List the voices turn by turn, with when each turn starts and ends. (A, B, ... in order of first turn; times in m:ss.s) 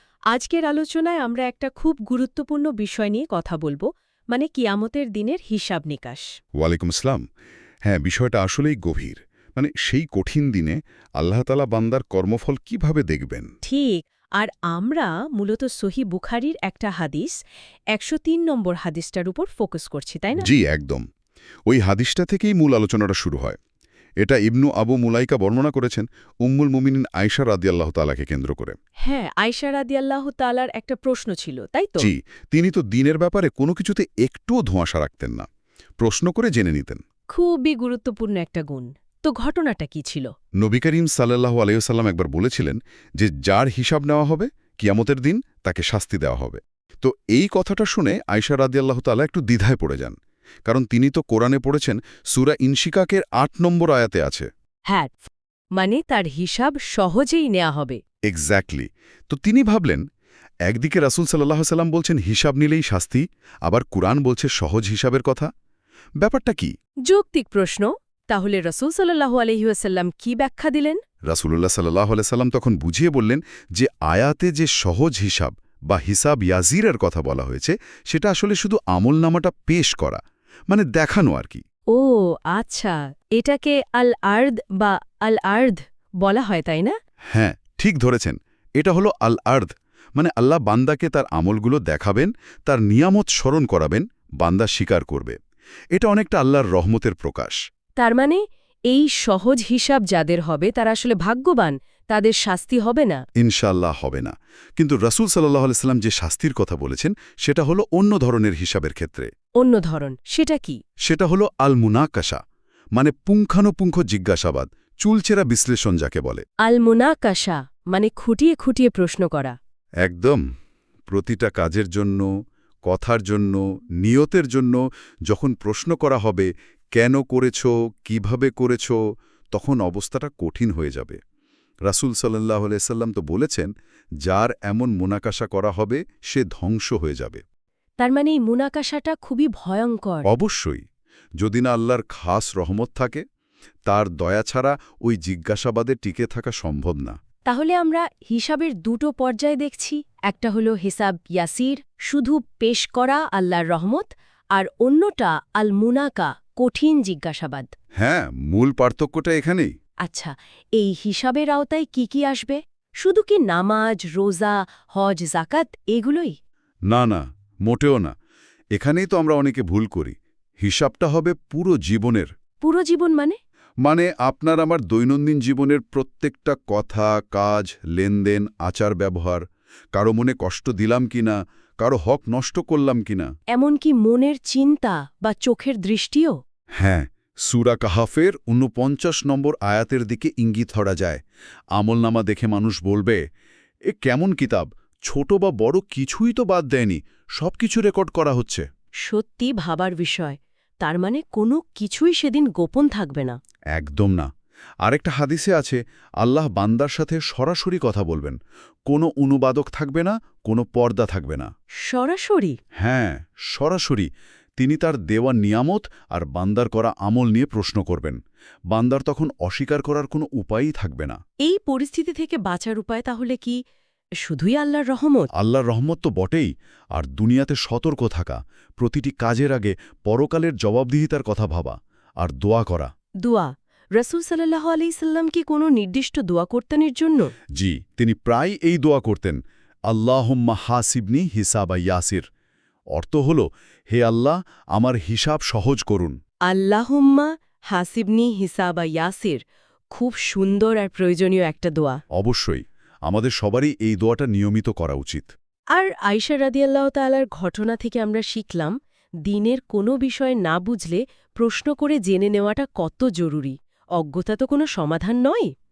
0:00.3-0:06.3 A
0:06.6-0:07.2 B
0:07.9-0:13.5 B
0:13.6-0:17.4 A
0:17.9-0:20.5 A
0:20.4-0:21.0 B
0:21.7-0:23.6 B
0:24.2-0:28.8 B
0:29.0-0:32.1 A
0:32.0-0:35.5 B
0:36.0-0:37.0 B
0:37.3-0:40.3 A
0:40.6-0:50.2 B
0:50.7-0:54.5 B
0:54.9-0:58.0 A
0:58.3-1:00.0 B
1:00.7-1:05.5 B
1:06.2-1:06.7 B
1:07.1-1:11.0 A
1:11.3-1:21.6 B
1:21.9-1:26.9 A
1:27.3-1:35.4 B
1:35.9-1:37.6 B
1:38.0-1:43.2 A
1:43.4-1:49.3 B
1:49.6-1:50.8 A
1:51.1-1:52.4 B
1:53.0-1:56.4 B
1:56.6-1:59.6 A
2:00.0-2:00.4 B
2:01.1-2:02.3 B
2:02.9-2:09.0 B
2:09.5-2:11.2 B
2:11.9-2:13.7 B
2:14.2-2:17.4 B
2:18.0-2:20.3 A
2:20.3-2:20.8 B
2:21.4-2:23.2 B
2:23.9-2:27.2 B
2:27.5-2:37.7 A
2:38.0-2:39.7 B
2:40.0-2:46.3 A
2:46.9-2:48.1 B
2:48.8-2:52.3 B
2:52.6-2:53.4 A
2:53.8-2:59.4 B
2:59.9-3:03.3 B
3:03.5-3:06.4 A
3:06.8-3:11.2 B
3:11.8-3:13.2 B
3:13.9-3:18.6 B
3:19.1-3:23.4 A
3:23.7-3:24.3 B
3:24.8-3:31.5 B
3:31.8-3:32.6 A
3:32.8-3:38.2 B
3:38.7-3:41.2 B
3:41.4-3:43.6 A
3:44.2-3:45.3 A
3:45.4-3:52.9 B
3:53.2-3:57.3 A
3:57.6-4:02.3 B
4:02.9-4:06.2 B
4:06.5-4:09.4 A
4:09.9-4:12.0 A
4:12.2-4:15.3 B
4:15.7-4:18.7 A
4:19.3-4:25.5 A